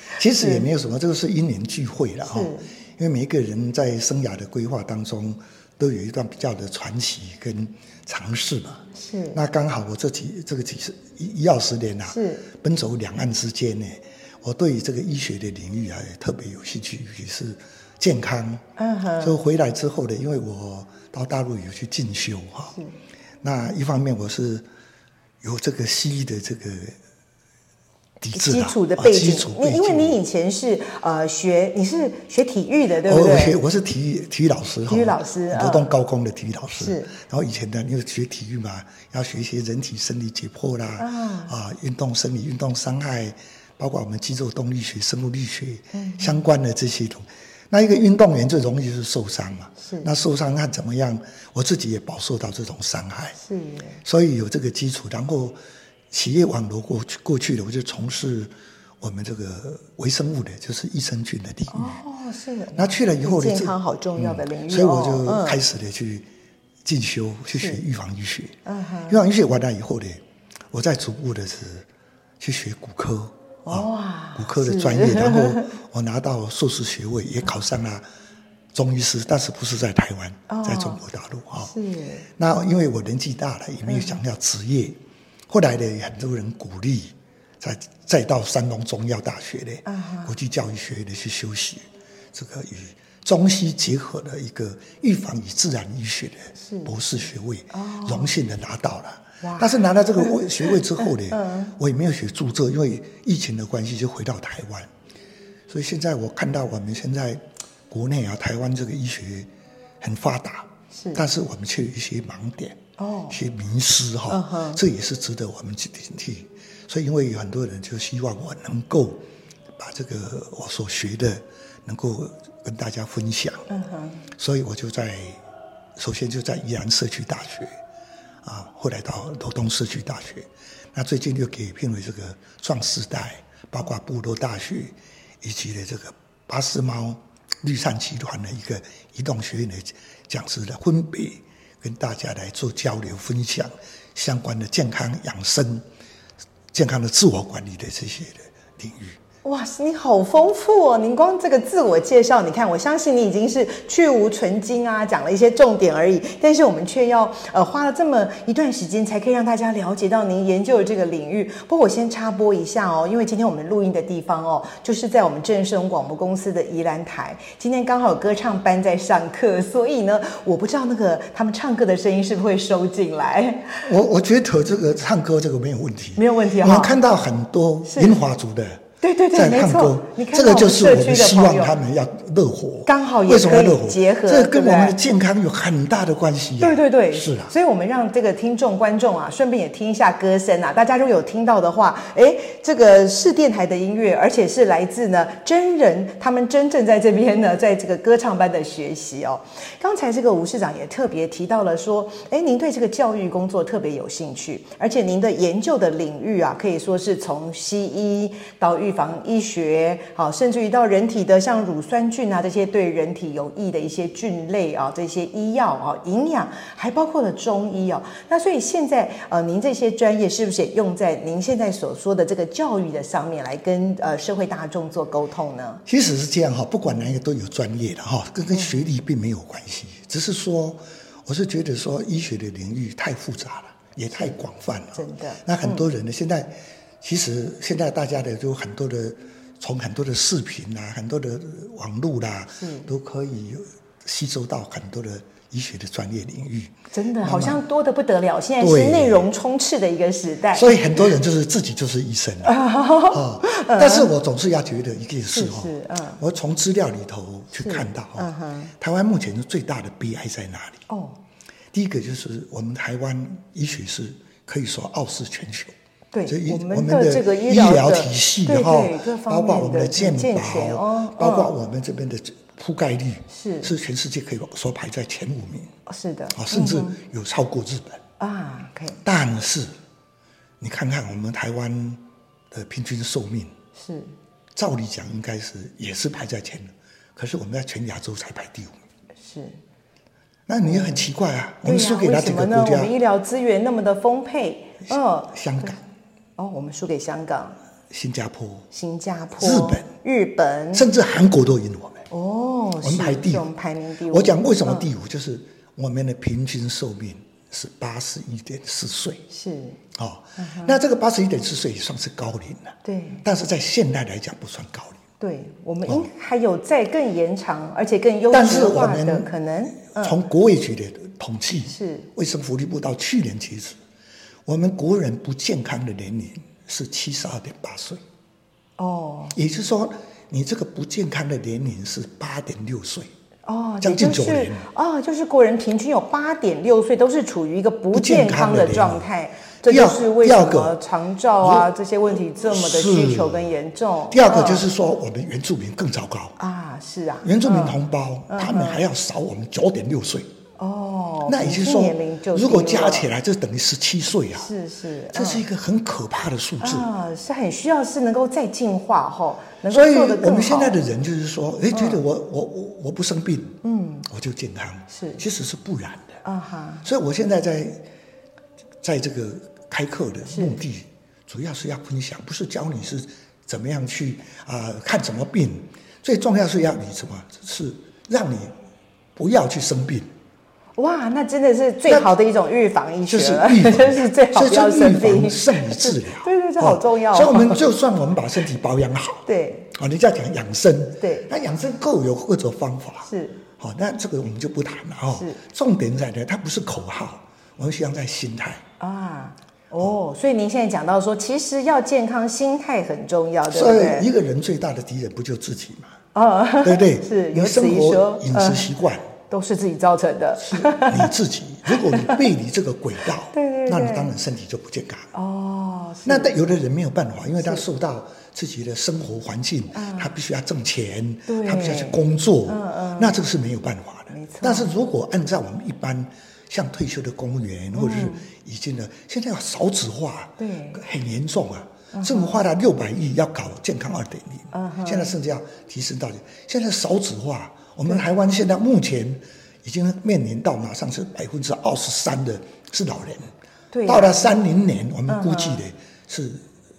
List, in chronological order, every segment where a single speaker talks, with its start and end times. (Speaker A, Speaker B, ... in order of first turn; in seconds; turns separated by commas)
Speaker A: 0.2-8.8, Speaker B: 0.4-0.6, Speaker B: 2.3-2.7, Speaker B: 8.9-9.4, Speaker A: 9.3-18.6, Speaker B: 12.1-12.4, Speaker B: 18.8-19.4, Speaker A: 19.2-22.8, Speaker A: 23.4-24.6, Speaker A: 25.4-26.9, Speaker A: 28.2-30.2, Speaker B: 28.3-33.5, Speaker A: 33.0-53.4, Speaker B: 34.9-35.9, Speaker B: 36.8-37.1, Speaker B: 41.0-41.5, Speaker B: 45.9-46.3, Speaker B: 49.8-50.1, Speaker B: 53.4-54.0, Speaker A: 54.0-55.6, Speaker A: 56.1-62.0, Speaker B: 61.7-65.6, Speaker A: 62.7-66.3, Speaker A: 66.8-68.5, Speaker B: 68.7-69.2, Speaker A: 69.1-70.2, Speaker A: 70.7-71.9, Speaker A: 72.4-78.0, Speaker B: 73.6-75.7, Speaker A: 78.7-81.7, Speaker B: 80.5-81.0, Speaker B: 81.6-82.2, Speaker A: 82.4-104.9, Speaker B: 83.8-84.2, Speaker B: 89.8-90.3, Speaker B: 96.6-96.9, Speaker B: 97.7-98.3, Speaker B: 99.4-101.7, Speaker A: 105.7-109.5, Speaker A: 110.0-112.8, Speaker B: 110.9-111.2, Speaker B: 113.0-113.4, Speaker A: 113.3-119.2, Speaker B: 114.3-114.8, Speaker A: 119.8-123.7, Speaker B: 123.7-124.2, Speaker A: 124.4-125.4, Speaker A: 126.0-127.7, Speaker A: 128.4-145.8, Speaker A: 146.7-149.2, Speaker B: 149.4-173.8, Speaker A: 173.8-178.8, Speaker B: 176.2-177.0, Speaker B: 177.8-178.2, Speaker B: 179.0-181.8, Speaker A: 179.3-187.5, Speaker B: 182.8-185.0, Speaker B: 186.6-225.8, Speaker A: 225.8-247.6, Speaker B: 228.5-228.8, Speaker B: 234.9-235.8, Speaker B: 242.6-242.9, Speaker B: 246.9-251.1, Speaker A: 248.6-249.3, Speaker A: 250.5-260.8, Speaker B: 252.4-254.1, Speaker B: 255.3-256.2, Speaker B: 257.5-258.7, Speaker B: 260.9-261.2, Speaker A: 261.7-265.7, Speaker B: 266.1-271.5, Speaker A: 266.3-275.7, Speaker B: 273.3-273.7, Speaker B: 275.9-276.9, Speaker A: 276.3-278.0, Speaker B: 278.2-279.0, Speaker A: 279.0-279.7, Speaker A: 280.6-283.5, Speaker B: 283.8-284.1, Speaker A: 284.6-288.7, Speaker B: 289.2-289.6, Speaker A: 290.5-292.9, Speaker B: 290.6-291.0, Speaker B: 291.6-295.7, Speaker A: 294.9-295.8, Speaker B: 296.4-297.6, Speaker A: 297.9-298.6, Speaker B: 298.7-300.9, Speaker A: 299.4-299.9, Speaker A: 300.7-302.0, Speaker B: 302.1-304.9, Speaker A: 302.8-303.5, Speaker A: 304.1-309.2, Speaker B: 309.3-309.8, Speaker A: 309.9-315.0, Speaker B: 310.4-310.8, Speaker B: 312.8-313.2, Speaker B: 315.2-320.2, Speaker A: 318.3-319.3, Speaker A: 319.9-323.8, Speaker B: 321.7-322.1, Speaker A: 324.4-328.0, Speaker B: 328.8-329.3, Speaker A: 329.3-333.1, Speaker B: 333.4-344.7, Speaker A: 333.8-334.6, Speaker A: 337.9-339.1, Speaker A: 339.6-340.8, Speaker A: 341.4-341.7, Speaker A: 342.4-343.5, Speaker A: 344.1-346.4, Speaker B: 346.4-347.8, Speaker A: 347.2-350.3, Speaker B: 348.3-348.8, Speaker B: 350.6-353.1, Speaker A: 351.2-354.5, Speaker B: 354.3-355.4, Speaker A: 355.1-356.9, Speaker B: 356.6-360.8, Speaker A: 359.7-366.2, Speaker B: 361.7-362.0, Speaker B: 363.6-364.1, Speaker B: 364.9-365.2, Speaker B: 366.2-366.8, Speaker A: 366.8-367.8, Speaker A: 368.8-378.5, Speaker B: 370.3-370.6, Speaker A: 379.1-380.1, Speaker B: 380.8-387.6, Speaker A: 381.9-382.1, Speaker A: 383.1-398.6, Speaker B: 389.2-389.7, Speaker B: 391.0-391.3, Speaker B: 393.1-393.4, Speaker B: 398.8-404.1, Speaker A: 403.5-405.9, Speaker B: 406.1-408.7, Speaker A: 406.6-409.0, Speaker B: 409.3-411.1, Speaker A: 410.4-415.1, Speaker B: 411.7-412.2, Speaker B: 413.3-414.1, Speaker B: 415.1-416.3, Speaker A: 416.1-443.3, Speaker B: 419.7-420.1, Speaker B: 421.3-423.2, Speaker B: 424.1-424.7, Speaker B: 427.7-428.2, Speaker B: 430.4-430.8, Speaker B: 431.9-432.4, Speaker B: 434.5-435.1, Speaker B: 443.7-444.3, Speaker A: 443.9-446.4, Speaker B: 445.1-445.6